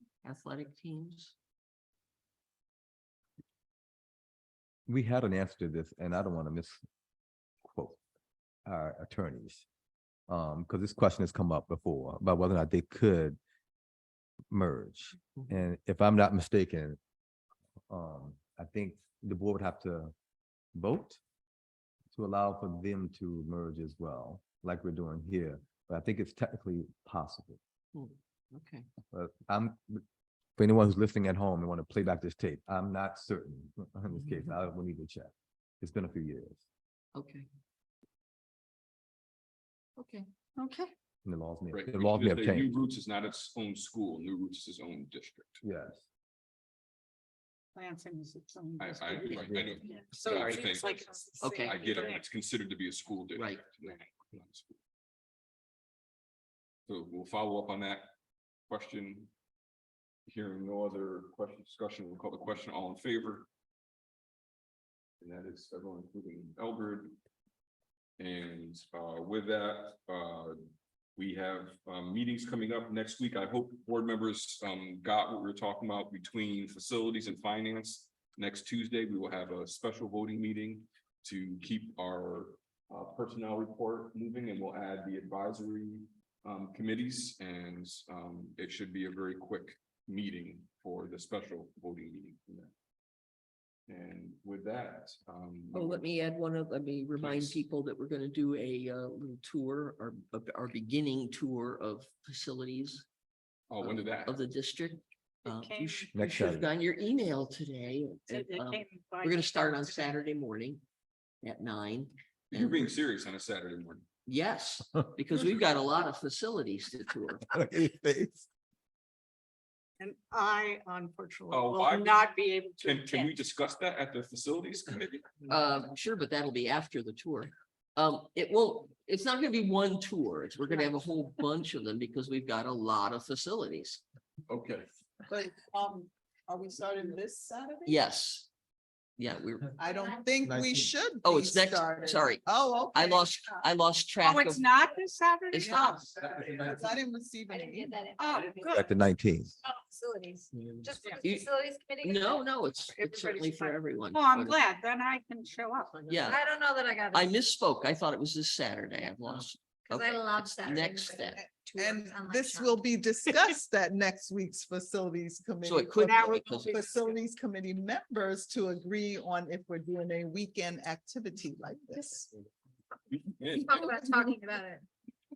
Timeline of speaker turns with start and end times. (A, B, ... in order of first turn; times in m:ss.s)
0:00.2-0:01.3 A
0:04.9-0:06.8 B
0:07.6-0:08.0 B
0:08.6-0:09.6 B
0:10.3-0:13.4 B
0:14.5-0:17.0 B
0:17.9-0:20.1 B
0:20.7-0:21.2 B
0:22.1-0:27.6 B
0:27.9-0:28.9 A
0:29.1-0:30.0 B
0:30.6-0:36.6 B
0:34.1-0:34.6 A
0:37.1-0:37.5 A
0:40.0-0:40.3 A
0:40.6-0:40.9 C
0:41.2-0:42.7 B
0:41.7-0:45.6 D
0:45.6-0:46.0 B
0:47.8-0:52.2 C
0:48.8-0:51.1 D
0:49.3-0:49.8 B
0:51.4-0:52.0 A
0:51.6-0:54.8 D
0:53.3-0:53.6 A
0:56.9-0:58.1 D
0:58.7-0:59.3 D
1:00.2-1:03.5 D
1:05.2-1:07.2 D
1:08.2-1:10.6 D
1:11.2-1:32.7 D
1:33.9-1:36.1 D
1:35.7-1:43.0 A
1:37.2-1:37.6 D
1:43.7-1:44.4 D
1:43.8-1:50.8 A
1:45.4-1:46.1 C
1:46.1-1:46.7 B
1:48.3-1:50.1 C
1:51.4-1:52.9 A
1:52.5-1:54.0 D
1:54.2-1:57.5 A
1:57.4-1:58.5 B
2:00.0-2:03.3 C
2:01.5-2:05.4 D
2:05.5-2:14.0 A
2:14.5-2:14.9 D
2:15.3-2:18.0 E
2:17.8-2:18.5 A
2:19.2-2:19.8 A
2:19.8-2:23.4 E
2:19.9-2:20.2 F
2:20.4-2:20.9 B
2:21.2-2:24.7 A
2:24.2-2:26.2 C
2:25.5-2:26.0 A
2:25.6-2:28.0 E
2:27.5-2:28.9 F
2:28.2-2:28.8 C
2:28.7-2:29.6 B
2:29.6-2:32.5 F
2:30.6-2:31.5 A
2:32.0-2:34.6 A
2:33.0-2:36.2 C
2:36.1-2:36.4 A
2:36.2-2:37.3 F
2:37.1-2:41.4 A
2:39.9-2:42.8 F
2:41.3-2:52.3 E
2:45.6-2:46.8 A
2:46.0-2:46.9 C
2:53.1-2:53.9 D
2:53.6-2:54.8 F